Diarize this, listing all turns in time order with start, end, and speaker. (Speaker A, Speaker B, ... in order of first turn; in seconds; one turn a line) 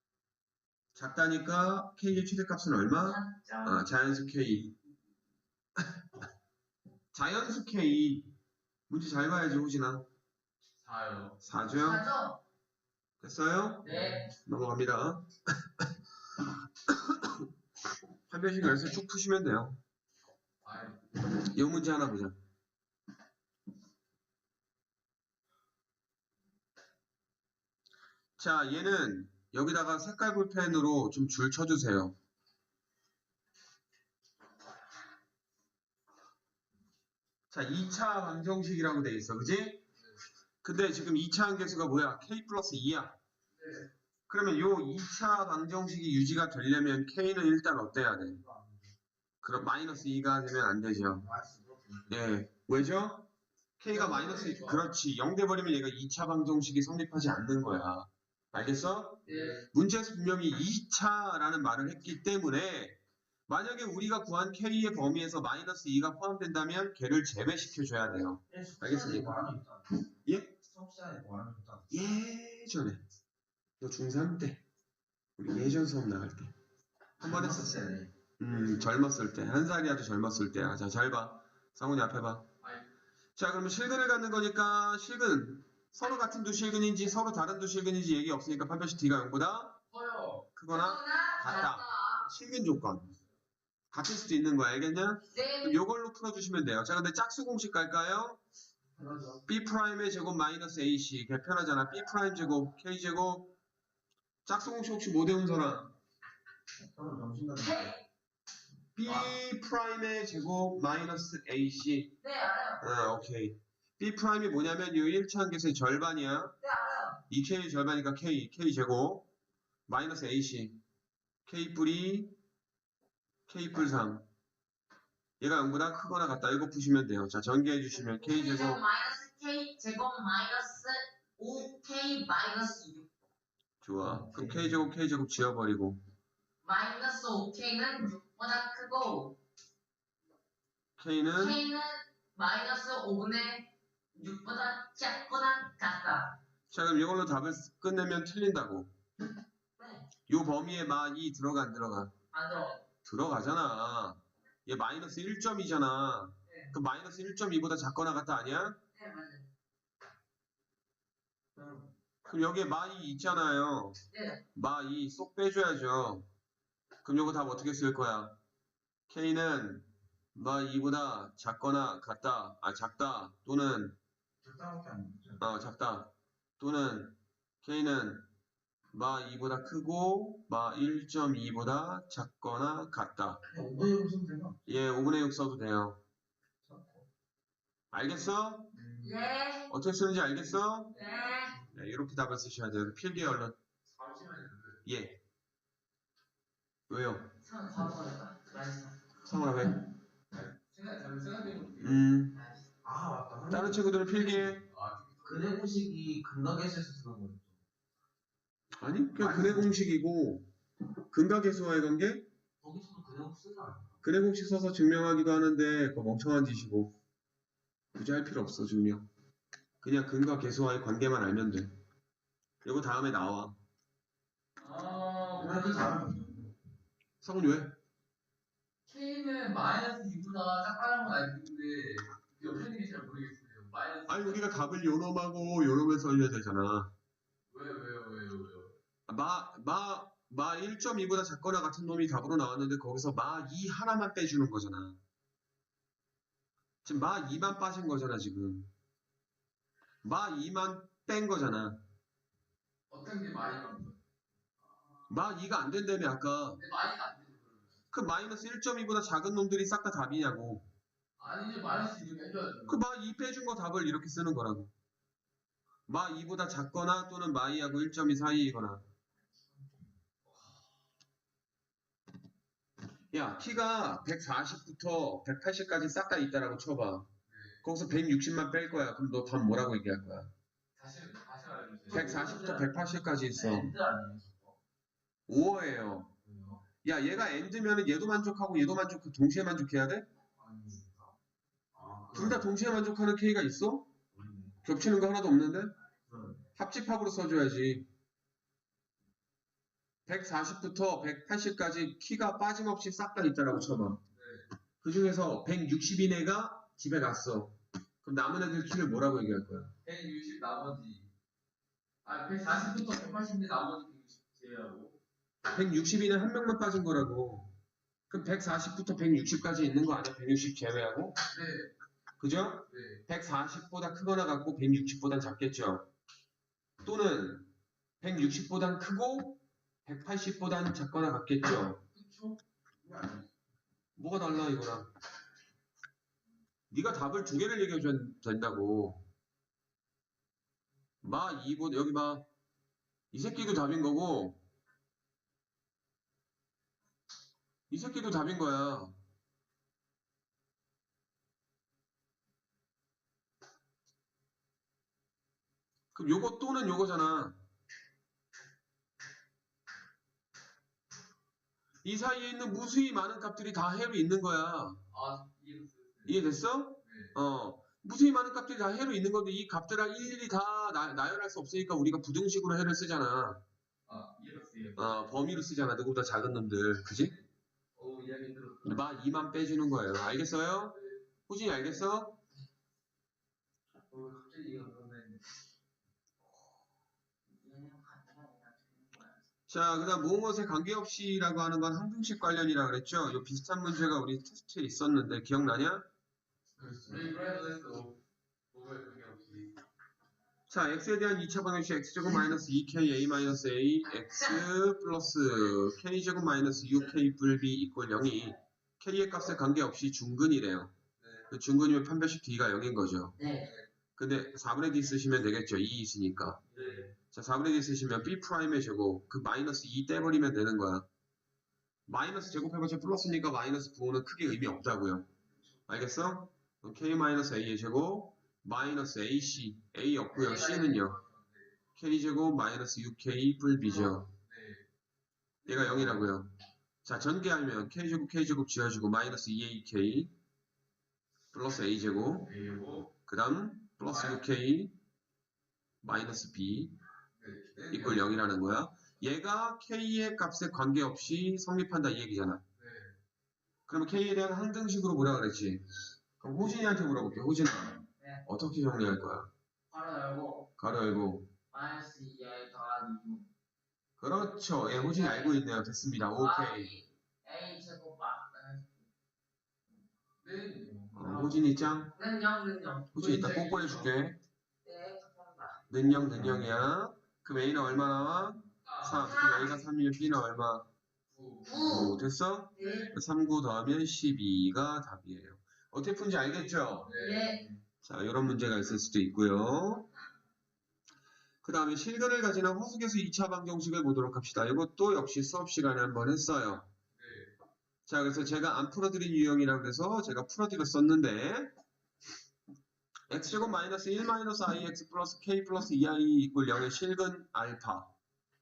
Speaker A: 0.9-4.7
Speaker B: 3.0-3.8
Speaker A: 7.1-8.3
Speaker A: 8.9-10.1
Speaker C: 10.8-11.4
Speaker A: 11.4-12.0
Speaker B: 11.7-12.4
Speaker A: 13.2-15.3
Speaker B: 13.8-14.3
Speaker A: 16.9-17.4
Speaker A: 18.3-19.8
Speaker C: 20.6-21.0
Speaker A: 21.4-22.4
Speaker A: 28.4-32.1
Speaker A: 37.5-39.8
Speaker A: 40.6-43.2
Speaker C: 43.5-43.9
Speaker A: 44.3-48.4
Speaker D: 48.3-48.9
Speaker A: 49.4-51.2
Speaker D: 51.1-52.3
Speaker A: 52.1-69.4
Speaker C: 53.9-54.9
Speaker B: 59.2-59.6
Speaker C: 59.3-59.6
Speaker D: 68.5-69.9
Speaker A: 70.2-70.5
Speaker D: 70.6-71.9
Speaker A: 71.9-73.0
Speaker A: 73.8-74.6
Speaker A: 75.4-76.5
Speaker A: 77.2-82.5
Speaker D: 77.2-78.1
Speaker C: 82.6-82.9
Speaker A: 83.4-89.8
Speaker C: 89.9-90.5
Speaker A: 90.5-93.2
Speaker B: 90.7-92.3
Speaker A: 93.9-98.4
Speaker B: 95.3-95.8
Speaker D: 99.0-99.4
Speaker A: 99.5-103.5
Speaker A: 104.5-105.9
Speaker D: 106.9-107.9
Speaker B: 107.6-108.0
Speaker A: 109.0-112.2
Speaker B: 112.2-112.8
Speaker A: 112.8-116.5
Speaker B: 116.6-117.2
Speaker A: 117.3-119.3
Speaker A: 119.9-120.8
Speaker A: 121.5-122.3
Speaker A: 123.5-124.2
Speaker A: 125.4-128.8
Speaker B: 128.2-133.1
Speaker A: 133.8-136.0
Speaker D: 134.0-134.7
Speaker B: 136.6-139.4
Speaker A: 141.0-141.6
Speaker B: 141.4-146.4
Speaker A: 146.7-148.9
Speaker B: 149.8-150.1
Speaker A: 150.3-152.1
Speaker B: 152.3-152.8
Speaker A: 153.0-158.8
Speaker B: 156.5-156.7
Speaker B: 158.9-159.5
Speaker D: 161.6-161.9
Speaker A: 162.2-164.0
Speaker B: 164.1-164.4
Speaker A: 164.5-166.2
Speaker A: 167.0-168.4
Speaker A: 169.1-174.0
Speaker D: 174.4-175.4
Speaker A: 175.4-178.2
Speaker A: 178.9-183.4
Speaker D: 183.4-184.7
Speaker A: 184.7-186.0
Speaker D: 186.6-187.1
Speaker A: 187.9-188.7
Speaker D: 188.7-189.1
Speaker B: 189.0-189.7
Speaker A: 189.7-191.0
Speaker B: 190.9-191.6
Speaker A: 191.6-193.6
Speaker C: 193.9-194.8
Speaker A: 194.8-195.2
Speaker A: 196.9-197.3
Speaker B: 197.4-199.0
Speaker A: 199.2-199.8
Speaker C: 200.4-202.1
Speaker A: 201.8-202.4
Speaker B: 202.3-202.6
Speaker D: 202.8-203.9
Speaker A: 203.5-204.6
Speaker C: 204.6-205.6
Speaker D: 205.2-207.6
Speaker A: 208.8-210.5
Speaker D: 209.1-209.8
Speaker A: 211.1-212.3
Speaker D: 212.6-214.0
Speaker A: 214.0-216.9
Speaker A: 217.9-219.1
Speaker A: 219.8-221.7
Speaker A: 222.6-223.6
Speaker C: 224.6-226.0
Speaker D: 225.4-226.5
Speaker A: 227.2-227.7
Speaker C: 228.9-234.5
Speaker A: 234.1-236.9
Speaker C: 237.5-238.8
Speaker A: 239.1-245.0
Speaker A: 246.8-248.7
Speaker A: 250.0-251.8
Speaker C: 252.9-254.0
Speaker A: 255.1-256.6
Speaker C: 256.6-257.7
Speaker A: 257.9-260.6
Speaker C: 261.2-262.8
Speaker A: 262.7-264.7
Speaker A: 265.9-268.8
Speaker C: 270.3-270.5
Speaker A: 273.1-277.1
Speaker C: 277.3-277.6
Speaker A: 277.6-280.3
Speaker C: 280.8-282.6
Speaker D: 281.9-282.6
Speaker A: 281.9-283.7
Speaker C: 283.4-284.5
Speaker A: 285.3-286.1
Speaker C: 286.2-286.6
Speaker A: 286.8-290.1
Speaker C: 290.4-291.1
Speaker D: 291.7-292.5
Speaker A: 292.1-293.9
Speaker D: 294.1-294.6
Speaker A: 294.6-295.7
Speaker D: 296.1-296.4
Speaker A: 296.6-297.9
Speaker A: 300.1-304.0
Speaker C: 304.1-304.4
Speaker A: 304.8-309.7
Speaker C: 309.8-311.1
Speaker C: 312.0-314.9
Speaker A: 315.5-317.5
Speaker A: 318.1-321.2
Speaker C: 321.3-321.7
Speaker A: 322.2-325.9
Speaker C: 322.7-323.0
Speaker A: 326.8-327.5
Speaker A: 328.0-331.8
Speaker C: 331.9-332.4
Speaker D: 332.8-333.2
Speaker A: 334.0-334.9
Speaker A: 336.7-339.0
Speaker A: 341.0-342.2
Speaker A: 343.1-344.4
Speaker A: 347.7-348.9
Speaker A: 355.9-357.4
Speaker A: 361.8-364.8
Speaker C: 364.9-366.2
Speaker A: 366.1-373.4
Speaker C: 366.8-367.1
Speaker C: 373.9-375.1
Speaker A: 374.8-377.1
Speaker C: 377.8-378.9
Speaker A: 378.6-382.2
Speaker C: 383.9-385.2
Speaker B: 387.4-389.2
Speaker A: 389.5-395.9
Speaker C: 396.6-398.0
Speaker C: 398.5-399.6
Speaker A: 400.5-410.7
Speaker C: 411.0-411.3
Speaker A: 411.3-413.2
Speaker B: 413.2-413.5
Speaker A: 414.0-416.4
Speaker C: 416.5-416.9
Speaker A: 417.1-420.9
Speaker A: 421.9-425.1
Speaker A: 425.7-431.0
Speaker B: 430.1-430.8
Speaker C: 430.7-431.4
Speaker A: 431.8-434.1
Speaker C: 434.1-434.6
Speaker C: 435.4-436.0
Speaker A: 435.5-436.3
Speaker A: 436.8-440.1
Speaker A: 441.3-442.3
Speaker C: 442.2-442.9
Speaker A: 443.1-444.8
Speaker C: 443.9-444.2
Speaker A: 445.8-446.8
Speaker C: 447.2-448.2
Speaker A: 447.7-452.4
Speaker C: 452.6-452.9
Speaker A: 453.7-455.6
Speaker A: 456.2-459.3
Speaker B: 459.7-460.5
Speaker A: 460.6-461.3
Speaker B: 461.5-463.2
Speaker A: 464.0-466.7
Speaker B: 464.9-465.4
Speaker B: 466.2-468.7
Speaker C: 470.2-471.9
Speaker A: 470.9-471.9
Speaker B: 471.9-473.8
Speaker A: 472.9-474.2
Speaker C: 473.6-473.9
Speaker B: 474.6-475.7
Speaker A: 475.7-480.7
Speaker C: 478.6-479.1
Speaker B: 479.0-479.6
Speaker C: 481.1-481.7
Speaker B: 481.4-482.0
Speaker A: 481.5-486.9
Speaker B: 482.6-482.9
Speaker C: 486.8-487.6
Speaker B: 486.9-487.4
Speaker A: 487.8-489.9
Speaker A: 491.4-496.7
Speaker C: 496.9-497.3
Speaker A: 497.9-501.5
Speaker A: 503.1-507.9